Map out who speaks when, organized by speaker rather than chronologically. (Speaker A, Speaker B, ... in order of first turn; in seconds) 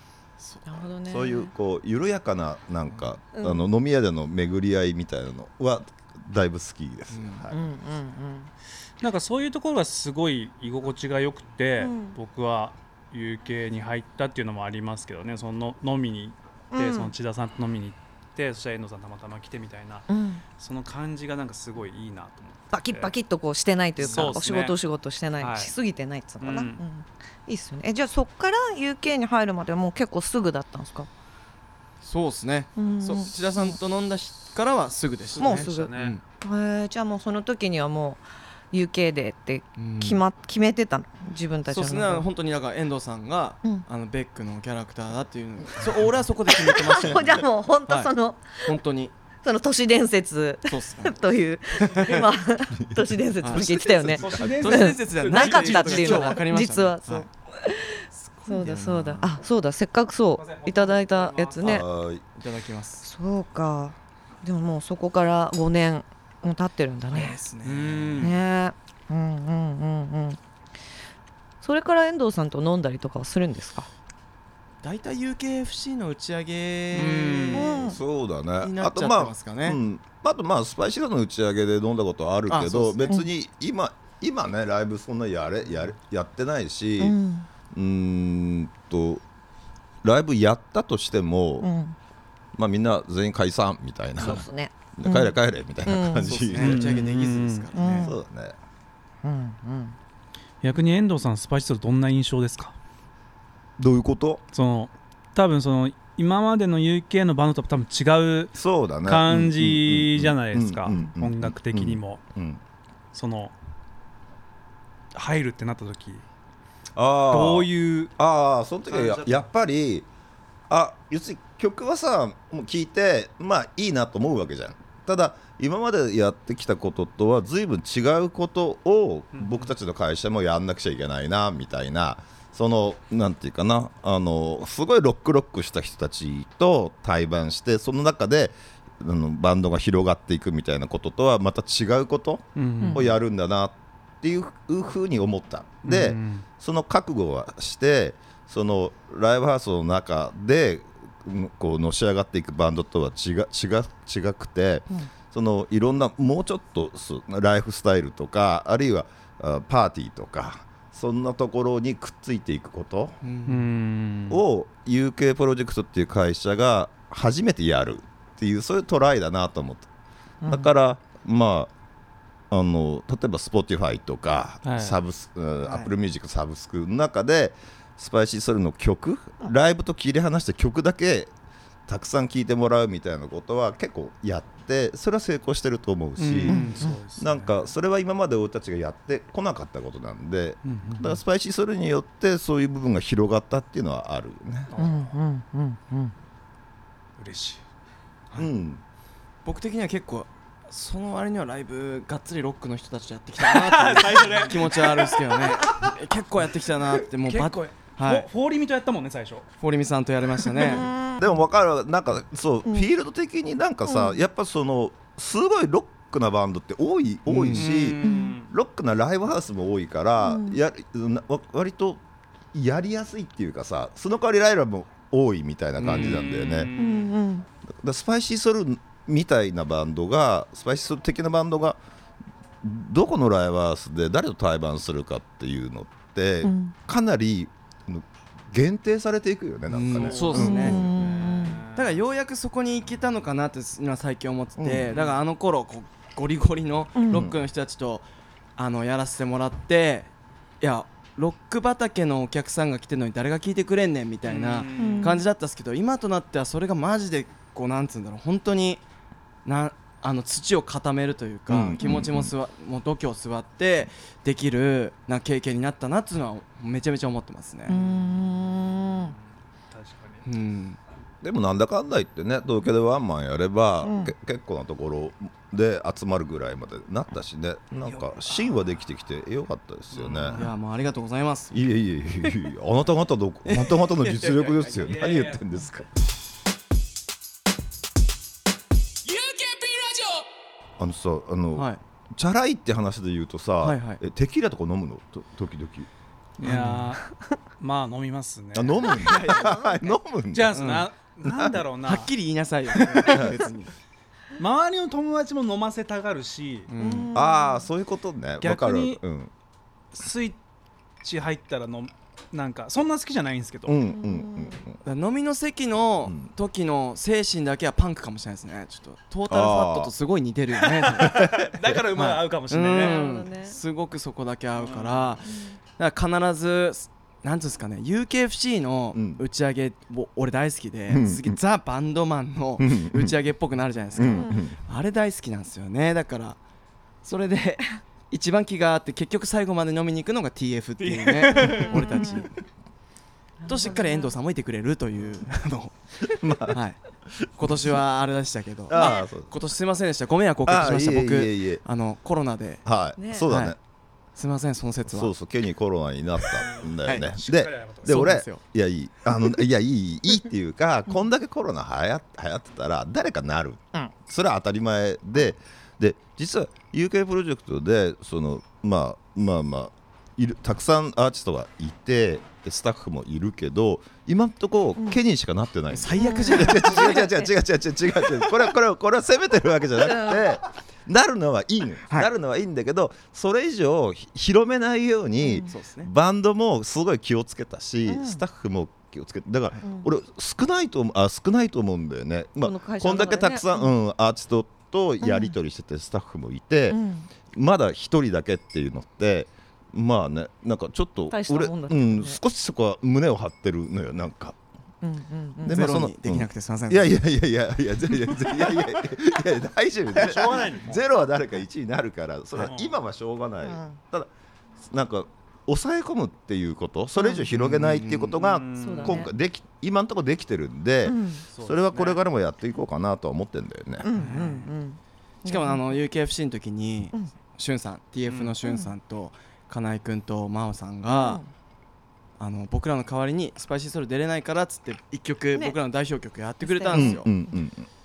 Speaker A: 0.4-0.8, 7.1-7.5, 24.0-24.4, 32.0-36.2, 39.8-40.2, 41.7-48.1, 48.6-49.1, 50.7-52.2, 53.4-53.7, 54.4-57.3, 58.1-59.3, 62.4-63.0, 67.1-68.3, 74.8-77.8, 78.6-79.8, 82.5-83.2, 96.2-98.1, 163.2-163.7, 186.5-186.9, 199.4-208.3, 209.6-210.9, 217.3-217.9, 225.8-226.2, 239.7-248.0, 248.6-258.8, 259.4-267.8, 270.2-270.8, 280.3-281.6, 283.5-285.1, 293.6-294.0, 296.4-296.9, 299.0-299.6, 300.5-300.9, 301.9-303.7, 306.7-307.1, 314.8-336.4, 337.0-342.3, 343.5-346.8, 347.3-352.6, 353.3-353.6, 354.1-355.1, 356.8-357.1, 357.8-358.4, 375.7-377.0, 385.4-385.9, 405.5-407.0, 409.9-410.4, 417.3-418.1, 423.9-424.5, 425.2-431.2, 432.2-437.1
Speaker B: 0.6-1.5, 3.3-3.7, 7.5-8.5, 11.8-12.2, 16.7-17.1, 20.1-20.4, 22.7-31.1, 32.8-33.8, 35.4-42.2, 46.5-48.8, 49.4-61.8, 63.0-67.4, 68.2-70.4, 71.6-73.9, 77.5-78.0, 87.0-87.5, 91.6-92.0, 94.2-96.5, 97.7-98.2, 99.2-100.0, 142.8-143.1, 170.4-170.7, 186.5-186.7, 194.8-196.1, 210.6-211.3, 213.9-214.2, 218.0-218.4, 220.2-220.6, 226.8-227.4, 236.4-236.7, 240.3-241.6, 246.9-247.2, 254.8-255.2, 267.7-269.1, 273.8-274.1, 299.1-300.0, 306.8-307.7, 313.9-314.6, 322.7-323.6, 325.3-325.6, 334.0-334.3, 341.6-342.2, 343.4-344.1, 348.7-349.0, 352.9-353.3, 376.0-377.3, 379.8-380.3, 385.2-385.5, 387.9-388.2, 389.6-389.9, 392.4-393.7, 395.0-395.4, 396.7-397.1, 401.1-402.2, 404.8-405.8, 413.4-413.8, 417.0-417.2, 418.6-419.1, 420.8-421.2, 423.8-425.8, 428.4-428.7, 430.9-431.3, 436.4-437.3
Speaker C: 1.1-7.6, 52.7-54.6, 61.6-62.2, 77.7-87.2, 87.7-89.2, 90.0-91.7, 92.5-97.0, 98.0-98.5, 103.8-104.4, 108.5-112.6, 117.0-120.1, 120.7-163.2, 164.3-169.9, 170.4-171.7, 172.5-181.3, 181.9-194.7, 198.4-198.8, 211.2-222.0, 222.5-226.7, 227.8-231.8, 232.6-240.9, 244.6-244.9, 247.1-247.4, 261.5-262.3, 271.2-280.5, 281.5-285.9, 290.8-295.9, 298.5-300.7, 301.2-301.6, 303.1-303.4, 307.1-309.3, 313.7-314.8, 316.0-316.3, 319.3-319.9, 321.1-321.5, 328.9-329.2, 330.9-331.4, 332.6-333.1, 333.9-334.6, 346.0-346.6, 347.1-347.8, 348.7-349.3, 350.4-351.6, 352.6-353.6, 354.9-396.8, 397.3-404.4, 405.4-423.9, 436.7-437.7
Speaker D: 9.0-23.1, 24.0-24.8, 25.4-25.7, 26.4-26.8, 35.3-36.1, 54.2-56.4, 60.4-61.8, 67.6-68.3, 76.9-77.7, 96.5-97.7, 100.6-102.7, 104.5-112.2, 113.1-113.5, 115.1-116.2, 117.3-118.1, 118.8-119.5, 129.3-129.7, 142.6-143.1, 145.8-146.4, 163.4-164.4, 174.6-175.0, 186.2-187.7, 190.6-191.2, 194.7-195.1, 197.2-197.6, 203.4-205.9, 206.8-209.5, 210.4-210.8, 217.5-218.5, 225.8-227.1, 239.9-242.0, 244.9-245.2, 254.2-255.2, 268.8-269.1, 269.7-270.2, 279.9-280.5, 284.8-285.4, 289.1-290.2, 296.4-297.1, 297.6-299.0, 300.3-302.1, 302.7-303.3, 304.4-306.7, 308.4-309.0, 309.9-310.4, 311.0-313.8, 320.8-323.1, 324.5-325.2, 340.8-342.0, 356.3-358.1, 409.9-410.8, 412.4-412.7, 418.1-419.0, 421.3-422.0, 428.1-428.4